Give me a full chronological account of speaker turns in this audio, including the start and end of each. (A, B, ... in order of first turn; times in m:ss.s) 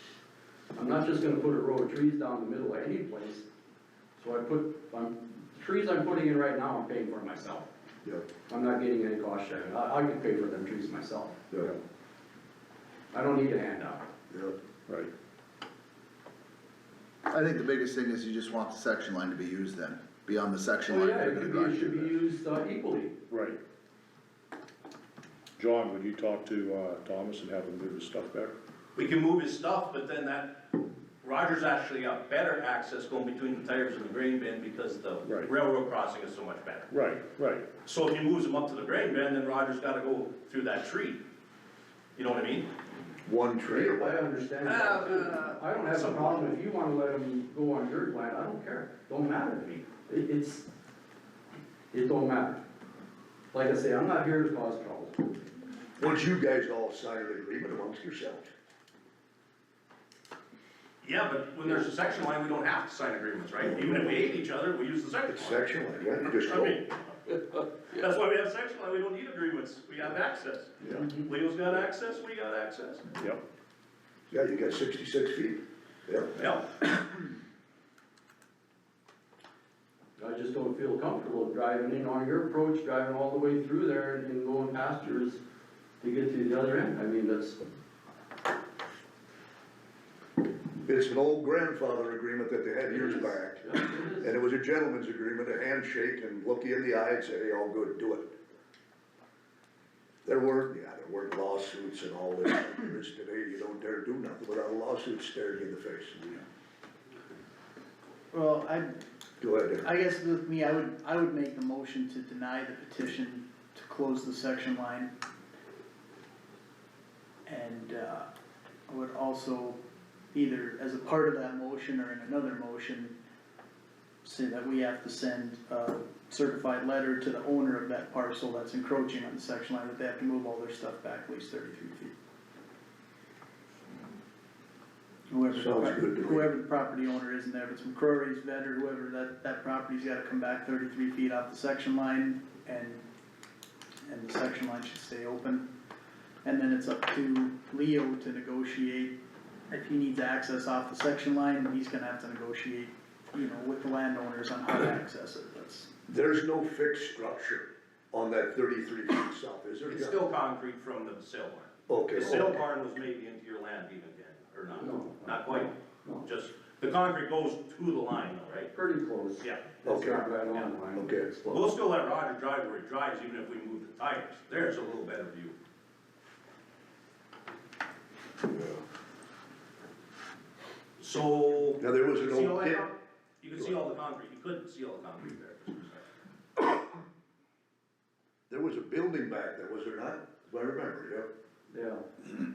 0:00.7-0:03.5 A
0:04.2-0:07.7 A
0:08.5-0:11.4 A
0:13.1-0:14.1 A
0:14.3-0:14.6 B
0:17.3-0:22.0 C
0:20.9-0:23.2 A
0:23.3-0:23.6 D
0:25.6-0:28.5 D
0:29.0-0:36.9 E
0:35.2-0:35.5 D
0:36.9-0:37.7 D
0:37.8-0:41.2 E
0:42.2-0:42.7 E
0:43.2-0:44.2 B
0:43.7-0:50.7 A
0:44.7-0:46.4 E
0:51.9-0:52.6 A
0:53.5-0:55.4 A
0:56.0-0:58.5 B
1:01.0-1:05.7 E
1:03.6-1:04.2 B
1:05.3-1:06.8 B
1:06.4-1:13.1 E
1:14.3-1:16.4 B
1:16.4-1:16.8 E
1:20.2-1:25.4 A
1:26.0-1:27.6 A
1:30.8-1:38.3 B
1:32.9-1:34.3 A
1:40.2-1:46.4 B
1:48.3-1:48.9 F
1:49.4-1:49.9 B
1:49.8-1:55.1 F
1:57.5-1:58.3 F
1:58.9-1:59.8 F
2:00.3-2:03.2 F
2:04.2-2:12.1 F
2:15.3-2:23.0 F
2:15.5-2:16.5 B
2:24.1-2:25.6 F
2:26.4-2:29.2 F
2:29.7-2:35.9 F
2:36.1-2:40.2 B
2:39.9-2:48.7 E
2:41.9-2:42.6 B
2:44.8-2:46.2 A
2:48.7-2:51.8 A
2:49.4-2:49.8 E
2:49.8-2:50.2 B
2:51.0-2:51.3 B
2:51.5-2:55.5 E
2:58.5-2:58.8 B
3:01.0-3:06.0 E
3:01.8-3:02.9 B
3:08.5-3:11.3 B
3:11.7-3:12.0 A